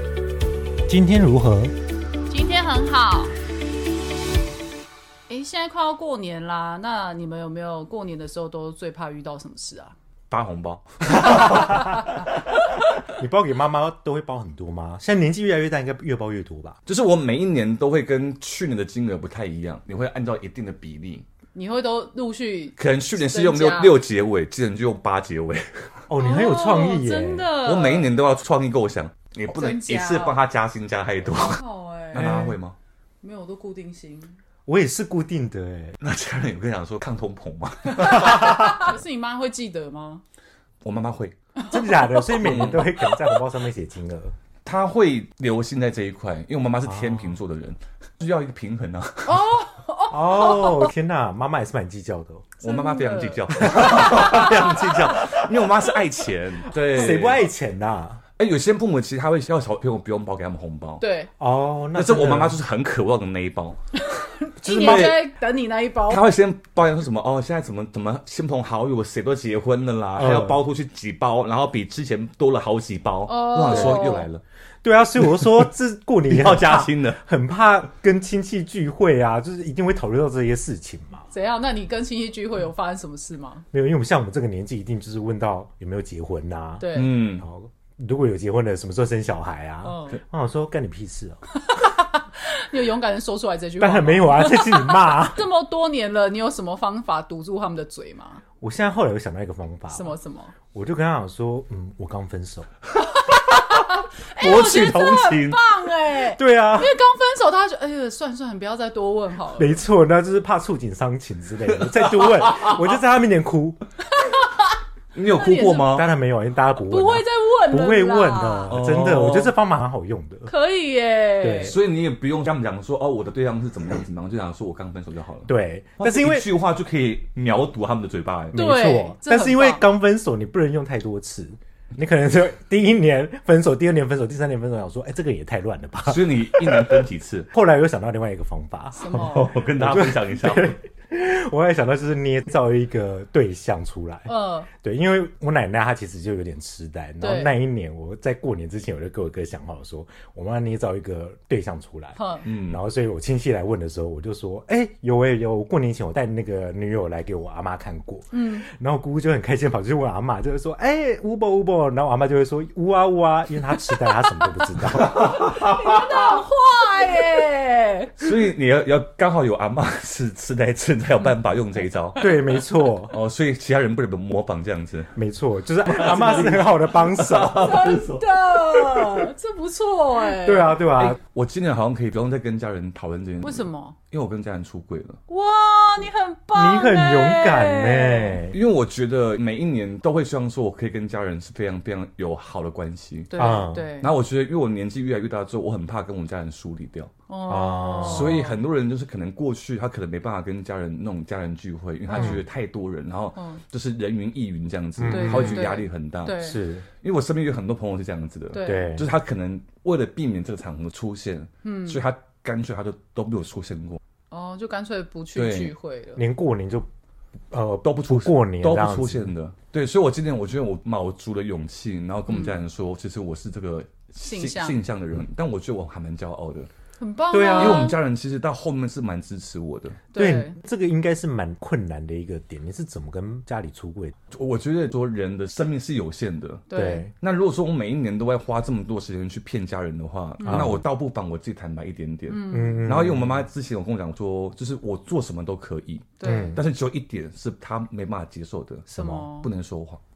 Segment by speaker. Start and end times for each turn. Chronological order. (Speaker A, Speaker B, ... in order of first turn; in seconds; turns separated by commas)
Speaker A: 0.9-1.7, Speaker B: 2.3-3.3, Speaker B: 5.3-9.9, Speaker C: 10.3-12.3, Speaker A: 11.3-11.9, Speaker B: 11.3-12.1, Speaker A: 13.1-16.8, Speaker C: 16.9-21.2, Speaker B: 21.5-24.0, Speaker C: 22.8-26.0, Speaker A: 26.1-27.5, Speaker B: 26.2-28.1, Speaker C: 27.6-32.8, Speaker B: 29.5-30.4, Speaker B: 31.3-32.5, Speaker A: 32.2-32.5, Speaker B: 33.2-34.4, Speaker A: 34.7-36.0, Speaker C: 36.0-38.9, Speaker B: 37.9-40.2, Speaker C: 40.8-41.3, Speaker B: 41.6-43.1, Speaker A: 41.7-44.4, Speaker C: 42.4-42.9, Speaker C: 44.7-49.4, Speaker A: 46.9-47.4, Speaker B: 49.2-50.9, Speaker A: 50.1-52.5, Speaker B: 52.6-54.9, Speaker C: 52.6-57.5, Speaker A: 53.7-55.4, Speaker A: 56.8-58.2, Speaker C: 58.4-61.0, Speaker B: 61.0-61.3, Speaker A: 61.4-62.5, Speaker C: 61.9-63.8, Speaker B: 64.0-66.2, Speaker A: 64.6-65.2, Speaker C: 64.7-65.3, Speaker C: 66.1-74.4, Speaker A: 70.2-70.6, Speaker B: 73.3-74.3, Speaker A: 73.7-74.1, Speaker A: 74.8-81.3, Speaker C: 75.2-75.7, Speaker C: 76.3-77.2, Speaker B: 81.3-83.6, Speaker A: 83.7-91.4, Speaker B: 86.8-87.2, Speaker C: 86.9-87.4, Speaker B: 89.8-90.2, Speaker B: 91.5-98.4, Speaker A: 93.8-95.4, Speaker A: 98.6-100.2, Speaker B: 99.9-100.5, Speaker A: 100.7-102.7, Speaker B: 103.2-109.8, Speaker C: 104.4-105.6, Speaker A: 106.3-106.9, Speaker A: 109.5-113.8, Speaker C: 112.3-112.8, Speaker B: 114.0-116.0, Speaker C: 115.1-116.1, Speaker A: 115.9-120.5, Speaker B: 116.9-118.8, Speaker C: 118.7-119.5, Speaker B: 120.5-121.8, Speaker A: 121.4-121.8, Speaker C: 121.6-128.6, Speaker A: 125.5-126.5, Speaker B: 128.5-129.8, Speaker A: 128.5-165.6, Speaker C: 136.1-137.5, Speaker B: 138.9-139.5, Speaker C: 139.1-140.8, Speaker B: 144.3-144.7, Speaker B: 147.2-147.5, Speaker B: 152.2-152.4, Speaker C: 152.4-152.8, Speaker B: 158.3-158.7, Speaker C: 165.1-166.0, Speaker B: 165.5-168.3, Speaker C: 168.2-172.2, Speaker A: 172.2-173.2, Speaker C: 173.1-175.1, Speaker A: 175.2-177.9, Speaker C: 175.8-179.3, Speaker B: 177.6-180.9, Speaker A: 180.4-181.2, Speaker C: 181.0-185.2, Speaker B: 183.4-183.9, Speaker B: 185.3-188.4, Speaker A: 186.5-188.6, Speaker C: 188.5-193.3, Speaker B: 193.3-194.1, Speaker A: 193.4-193.9, Speaker C: 194.0-197.1, Speaker B: 197.3-198.6, Speaker A: 197.5-198.4, Speaker C: 198.0-206.4, Speaker B: 202.1-202.4, Speaker A: 202.1-202.4, Speaker B: 203.3-203.6, Speaker A: 205.0-205.7, Speaker B: 205.1-206.6, Speaker A: 206.3-206.8, Speaker C: 207.0-214.0, Speaker B: 208.5-209.0, Speaker A: 208.6-209.1, Speaker B: 211.6-212.0, Speaker B: 214.3-216.2, Speaker C: 215.3-215.7, Speaker A: 216.2-216.9, Speaker A: 217.5-219.3, Speaker C: 217.8-226.7, Speaker B: 222.3-222.6, Speaker B: 224.2-224.8, Speaker B: 227.0-227.9, Speaker A: 227.3-227.9, Speaker C: 227.5-230.0, Speaker B: 230.1-230.6, Speaker A: 230.2-234.2, Speaker C: 234.3-236.7, Speaker B: 236.7-237.1, Speaker A: 236.7-237.1, Speaker C: 237.2-250.0, Speaker B: 240.4-240.8, Speaker A: 240.4-240.8, Speaker B: 242.3-242.9, Speaker A: 242.5-243.4, Speaker B: 246.2-246.6, Speaker A: 246.2-246.6, Speaker B: 248.9-249.5